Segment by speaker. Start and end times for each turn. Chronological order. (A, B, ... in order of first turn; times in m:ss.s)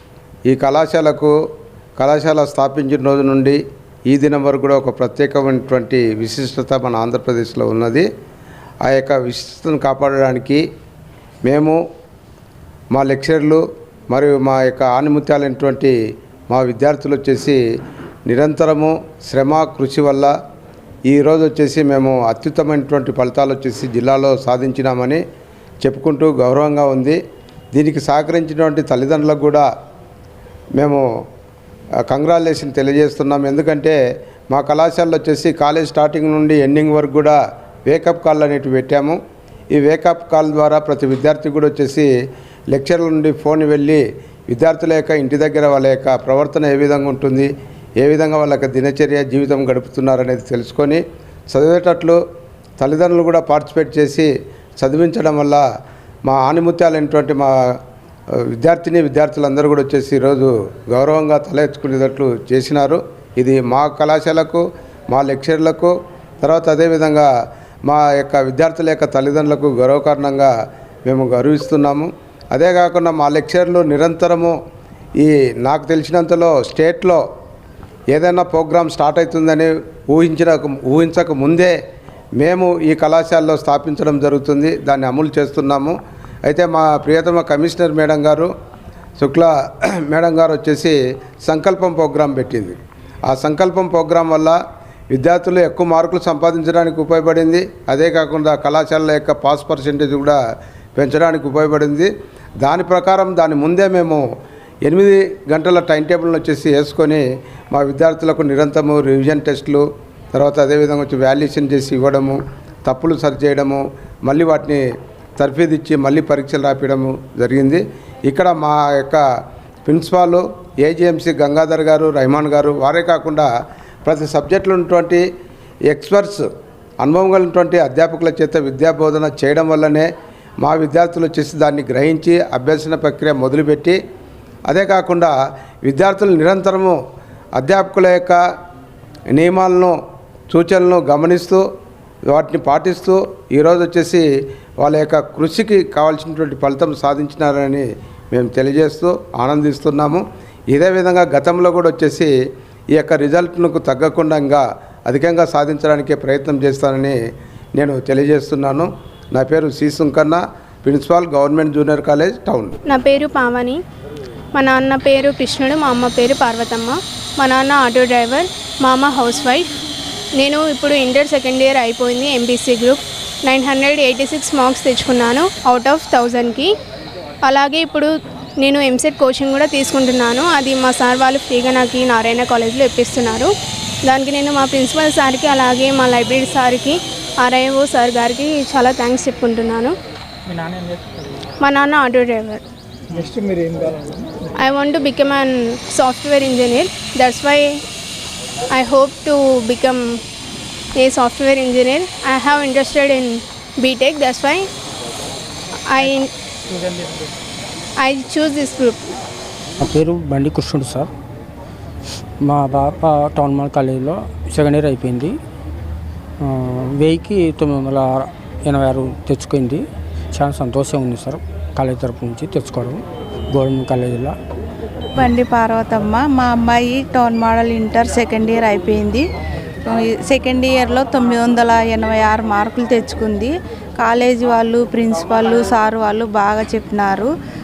0:00.5-0:01.4 A
0:02.0-0:08.1 A
0:08.8-0:10.6 A
0:11.4-0:11.8 A
0:12.9-0:16.0 A
0:16.5-0:17.6 A
0:18.2-0:20.3 A
0:21.0-0:25.2 A
0:25.8-0:27.2 A
0:27.7-0:29.7 A
0:30.7-0:31.0 A
0:32.0-0:34.0 A
0:34.5-0:39.2 A
0:39.7-0:42.1 A
0:42.7-0:52.2 A
0:52.8-0:55.6 A
0:56.2-0:57.8 A
0:58.3-1:07.3 A
1:07.8-1:10.5 A
1:11.0-1:14.6 A
1:15.2-1:17.2 A
1:18.1-1:21.8 A
1:22.4-1:28.5 A
1:29.2-1:34.6 A
1:35.1-1:40.4 A
1:41.0-1:44.2 A
1:44.8-1:54.8 A
1:55.4-1:59.2 A
1:59.8-2:03.5 A
2:04.0-2:05.2 A
2:05.9-2:06.5 A
2:07.0-2:10.1 A
2:10.6-2:14.0 A
2:14.6-2:17.0 A
2:17.5-2:18.4 A
2:19.3-2:20.0 A
2:20.5-2:21.6 A
2:22.3-2:24.2 A
2:24.8-2:32.3 A
2:32.9-2:37.2 A
2:37.8-2:42.8 A
2:42.8-2:43.8 B
2:44.5-2:49.7 B
2:50.4-2:56.7 B
2:57.4-3:03.5 B
3:04.0-3:09.9 B
3:10.4-3:11.2 C
3:11.6-3:12.6 B
3:13.1-3:14.4 C
3:14.6-3:17.8 B
3:18.7-3:20.2 B
3:21.0-3:24.6 B
3:25.9-3:26.3 B
3:26.7-3:27.3 C
3:28.0-3:29.0 B
3:29.8-3:31.1 D
3:32.4-3:35.4 D
3:36.4-3:43.0 D
3:43.5-3:44.3 D
3:45.2-3:49.2 E
3:49.9-3:57.3 E